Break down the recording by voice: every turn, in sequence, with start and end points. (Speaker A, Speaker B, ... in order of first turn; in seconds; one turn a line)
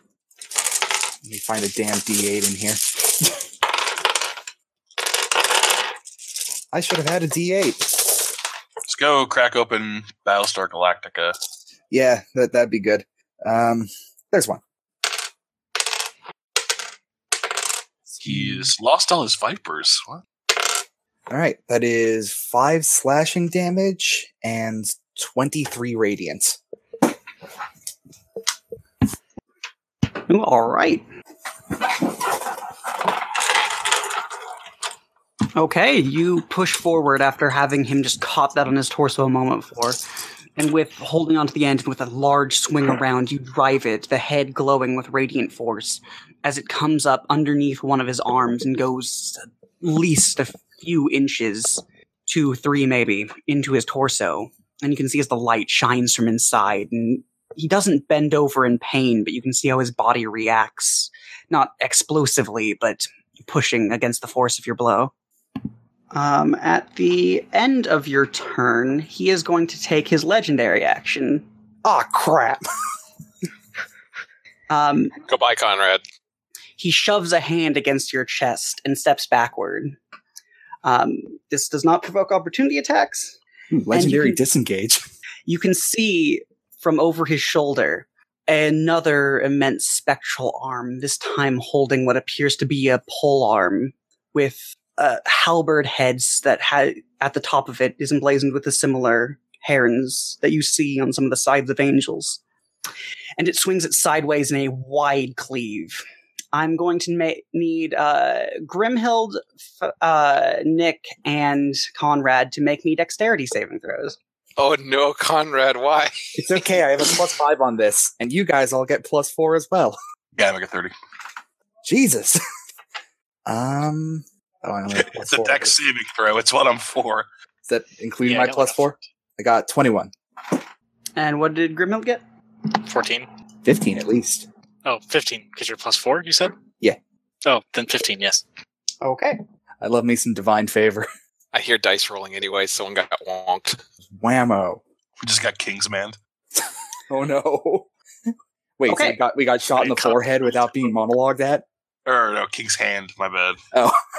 Speaker A: 1.2-3.5
Speaker A: 6.7-8.4
Speaker B: 8.9-11.4
Speaker A: 11.9-14.6
Speaker A: 18.1-18.7
Speaker B: 18.2-20.2
Speaker A: 21.3-26.6
Speaker C: 30.3-31.0
Speaker C: 35.5-40.0
Speaker C: 40.6-65.1
Speaker C: 66.1-71.5
Speaker A: 71.8-72.7
Speaker C: 74.7-75.2
Speaker D: 75.2-76.0
Speaker C: 76.8-80.0
Speaker C: 80.8-83.4
Speaker A: 83.7-85.0
Speaker C: 83.9-84.4
Speaker C: 85.5-102.4
Speaker C: 103.4-114.2
Speaker D: 114.6-116.6
Speaker A: 116.4-120.0
Speaker B: 120.3-120.9
Speaker A: 121.8-122.4
Speaker A: 123.5-125.8
Speaker B: 124.9-127.3
Speaker A: 127.7-130.1
Speaker E: 128.2-129.0
Speaker C: 131.2-132.2
Speaker E: 132.8-133.3
Speaker A: 133.6-134.5
Speaker E: 134.8-136.6
Speaker E: 137.4-138.4
Speaker C: 139.0-139.4
Speaker A: 139.8-141.1
Speaker D: 141.5-143.8
Speaker A: 144.1-144.8
Speaker B: 145.2-146.2
Speaker A: 146.6-147.9
Speaker A: 148.8-151.7
Speaker C: 148.9-149.2
Speaker E: 149.8-150.8
Speaker B: 152.1-153.6
Speaker A: 153.7-154.0